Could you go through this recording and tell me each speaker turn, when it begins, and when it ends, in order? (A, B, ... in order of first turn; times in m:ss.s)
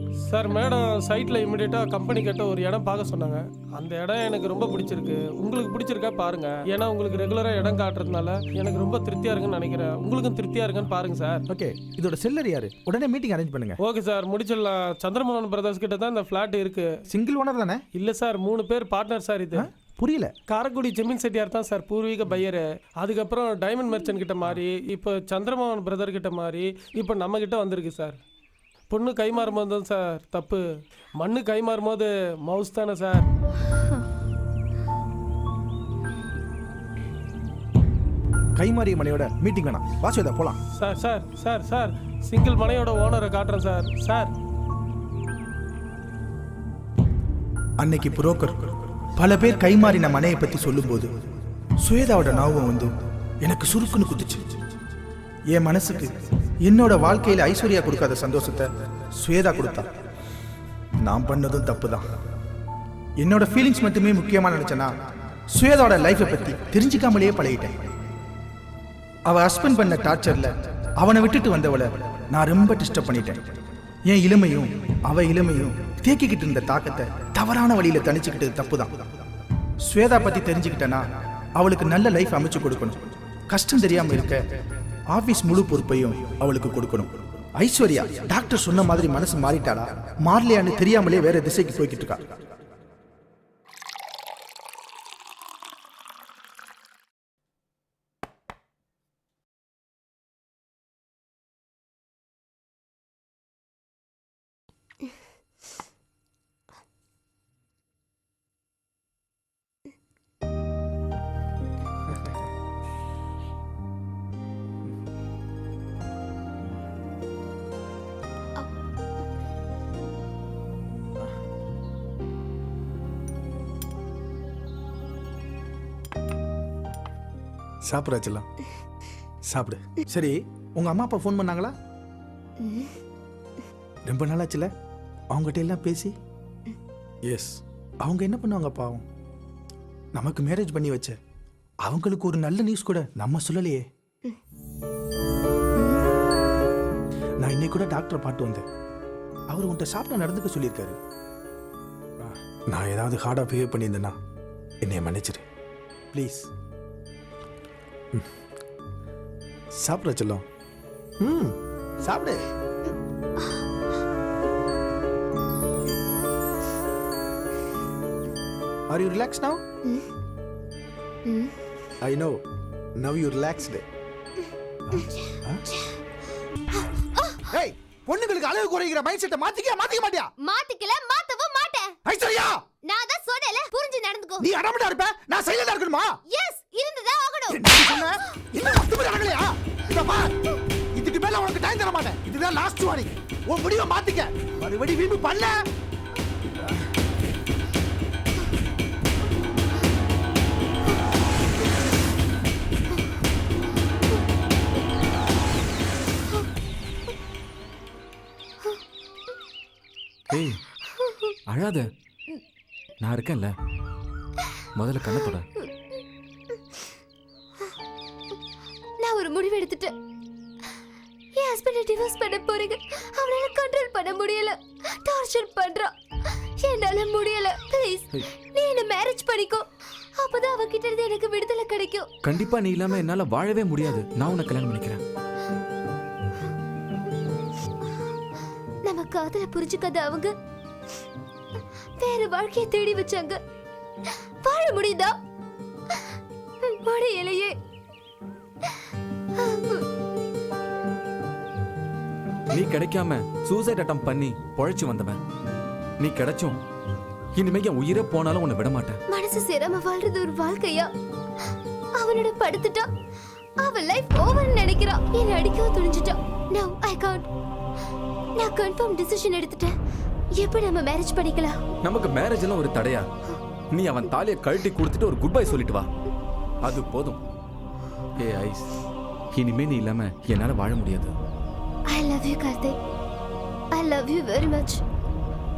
0:00.3-0:11.4 A
0:11.5-0:13.8 B
0:13.8-0:16.9 A
0:17.1-0:17.8 B
0:18.0-0:19.5 A
0:19.5-0:20.3 B
0:20.5-0:28.2 A
0:28.9-0:30.6 A
0:31.2-0:33.2 A
0:38.6-0:40.6 B
0:40.8-0:44.3 A
0:47.8-0:51.1 B
0:51.8-0:52.9 B
0:53.4-0:54.5 B
0:55.5-0:59.9 B
1:01.0-1:02.1 B
1:03.2-1:04.9 B
1:05.5-1:07.9 B
1:09.2-1:13.4 B
1:14.0-1:18.9 B
1:19.8-1:24.4 B
1:25.1-1:32.3 B
2:07.8-2:08.4 B
2:09.5-2:11.7 B
2:12.6-2:13.0 C
2:14.1-2:14.7 B
2:15.3-2:16.1 B
2:17.3-2:19.0 B
2:20.1-2:21.2 B
2:21.8-2:23.8 B
2:27.4-2:28.6 B
2:29.5-2:31.0 B
2:32.2-2:34.2 B
2:34.8-2:35.4 B
2:36.1-2:36.5 B
2:39.8-2:40.4 B
2:41.2-2:42.5 B
2:48.9-2:49.6 B
2:51.2-2:51.5 C
2:52.0-2:52.4 B
2:53.0-2:53.8 B
2:54.9-2:55.6 B
2:55.0-2:55.2 C
2:56.7-2:57.5 C
2:57.5-3:00.3 B
3:00.4-3:01.9 C
3:02.0-3:02.6 B
3:02.8-3:04.4 C
3:04.4-3:06.2 B
3:06.3-3:08.1 C
3:07.5-3:10.4 B
3:10.9-3:15.6 B
3:30.3-3:30.6 D
3:30.8-3:31.3 C
3:31.5-3:31.8 D
3:33.0-3:33.5 D
3:34.8-3:35.4 D
3:35.1-3:36.0 C
3:36.5-3:36.8 C
3:39.0-3:39.9 C
3:41.3-3:52.0 C
3:52.2-3:55.0 D
3:58.8-4:00.3 C
4:02.0-4:03.4 C
4:04.0-4:05.2 C
4:05.9-4:07.5 C
4:09.4-4:09.8 C
4:12.6-4:15.2 D
4:16.0-4:16.6 D
4:17.4-4:19.0 D
4:19.1-4:20.9 C
4:22.0-4:22.9 C
4:23.6-4:27.3 C
4:28.4-4:29.7 C
4:30.3-4:31.6 C
4:31.8-4:33.0 D
4:33.7-4:35.8 D
4:36.6-4:37.2 D
4:38.2-4:38.7 D
4:39.3-4:41.1 D
4:41.9-4:42.8 C
4:43.7-4:44.8 C